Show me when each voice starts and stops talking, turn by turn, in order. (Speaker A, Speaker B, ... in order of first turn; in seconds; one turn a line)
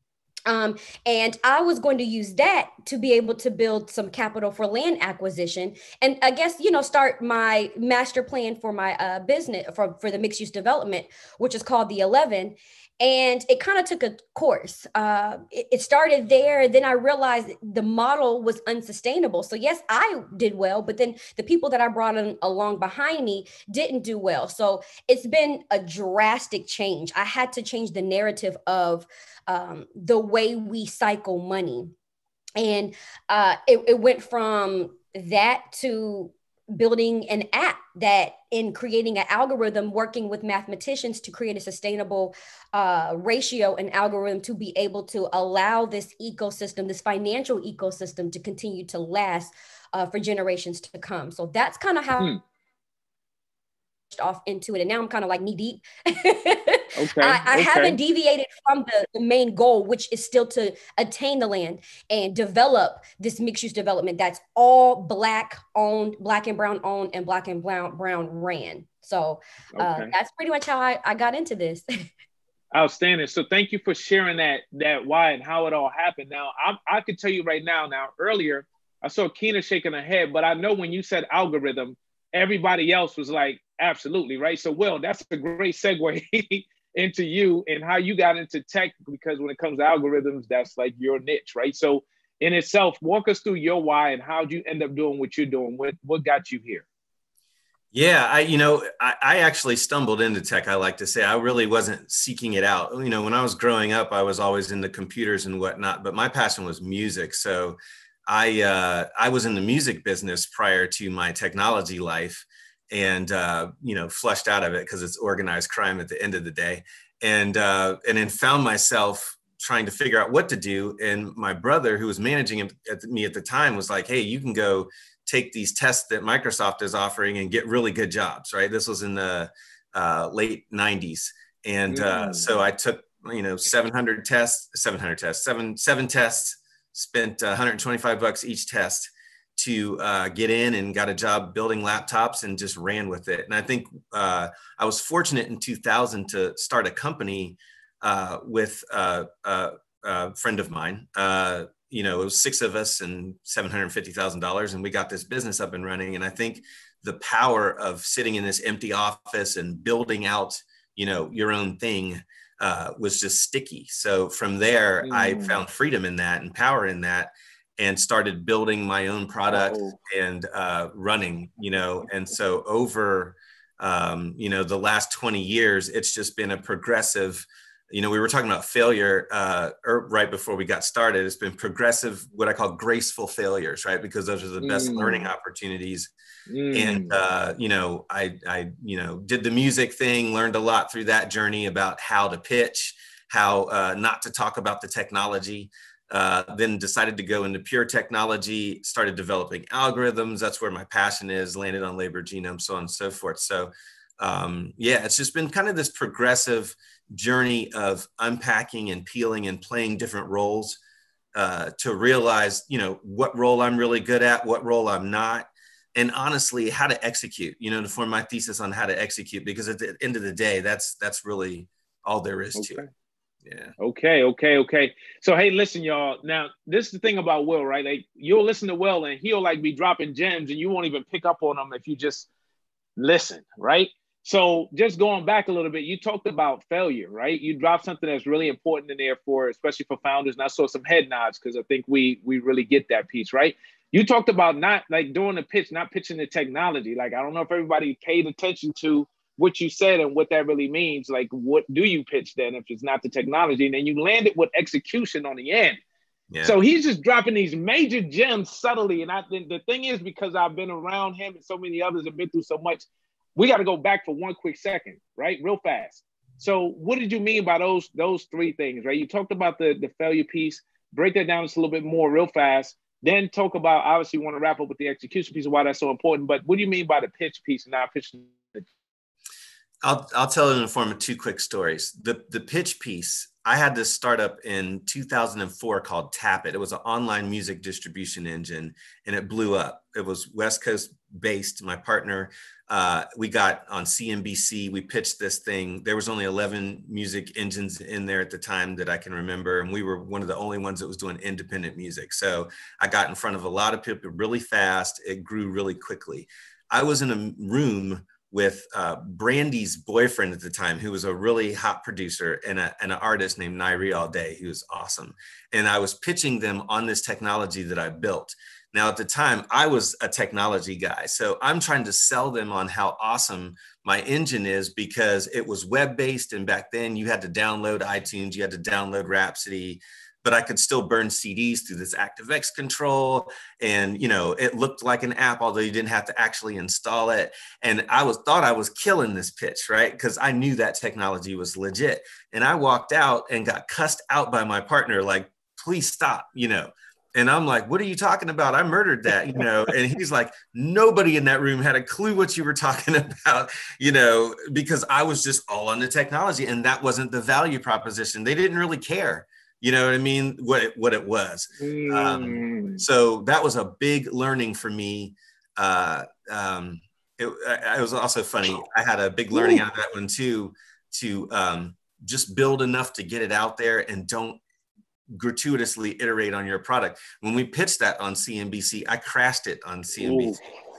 Speaker A: 0.5-31.9
Speaker A: 32.6-52.3
Speaker A: 54.1-71.8
Speaker B: 57.0-58.0
Speaker B: 69.7-70.1
Speaker B: 72.7-96.8
Speaker C: 97.9-186.1
Speaker B: 131.9-132.5
Speaker B: 165.0-165.6
Speaker B: 169.5-170.0
Speaker B: 184.6-185.3
Speaker B: 186.5-187.2
Speaker C: 186.7-210.8
Speaker C: 211.3-222.8
Speaker B: 222.6-222.9
Speaker C: 223.4-223.7
Speaker B: 223.8-232.3
Speaker B: 233.0-255.8
Speaker C: 256.3-256.6
Speaker B: 256.4-278.6
Speaker C: 279.8-374.4
Speaker B: 361.6-362.8
Speaker B: 369.3-369.6
Speaker C: 375.1-380.4
Speaker B: 380.0-380.4